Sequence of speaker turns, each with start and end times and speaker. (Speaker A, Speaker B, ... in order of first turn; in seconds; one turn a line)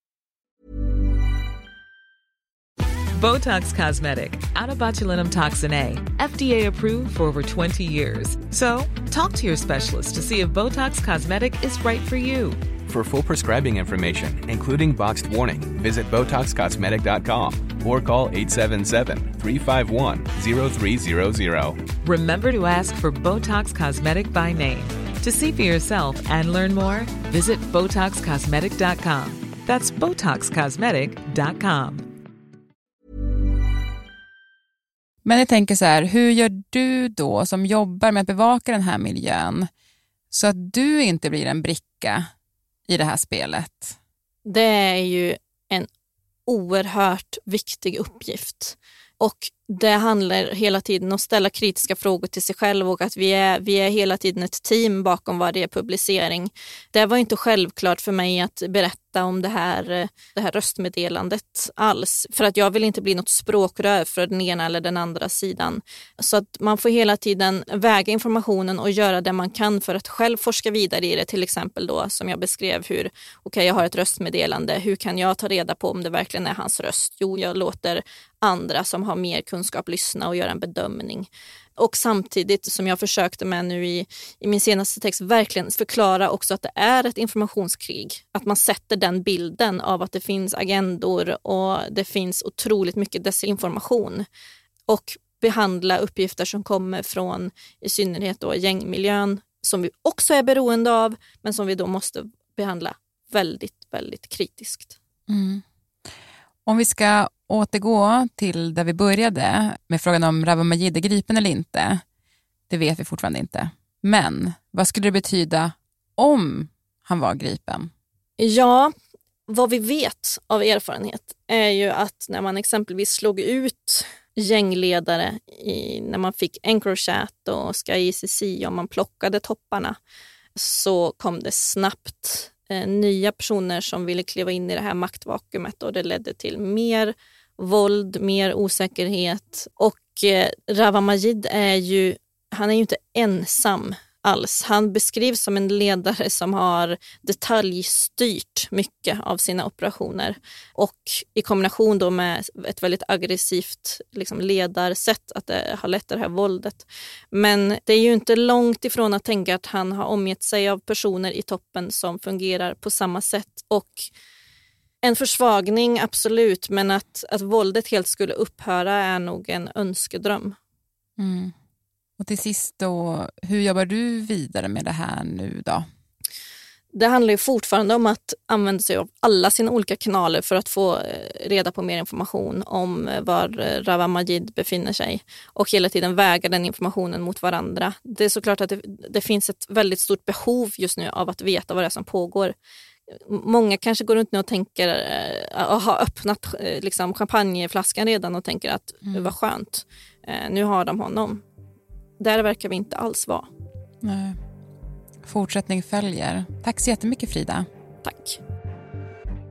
Speaker A: 3.2-12.6
Speaker B: 12.9-21.9
Speaker A: 22.0-32.0
Speaker C: 35.2-39.7
Speaker C: 40.3-42.2
Speaker C: 42.9-44.0
Speaker D: 44.4-45.9
Speaker D: 46.5-94.2
Speaker D: 94.9-105.0
Speaker C: 105.3-105.6
Speaker C: 106.7-112.0
Speaker C: 112.7-117.9
Speaker D: 118.4-118.9
Speaker D: 119.5-130.0
Speaker D: 130.6-164.1
Speaker D: 165.0-170.6
Speaker C: 171.2-171.5
Speaker C: 172.2-175.8
Speaker D: 176.9-192.5
Speaker D: 193.2-201.4
Speaker D: 202.2-203.5
Speaker C: 204.0-204.4
Speaker C: 205.2-207.7
Speaker D: 208.0-208.4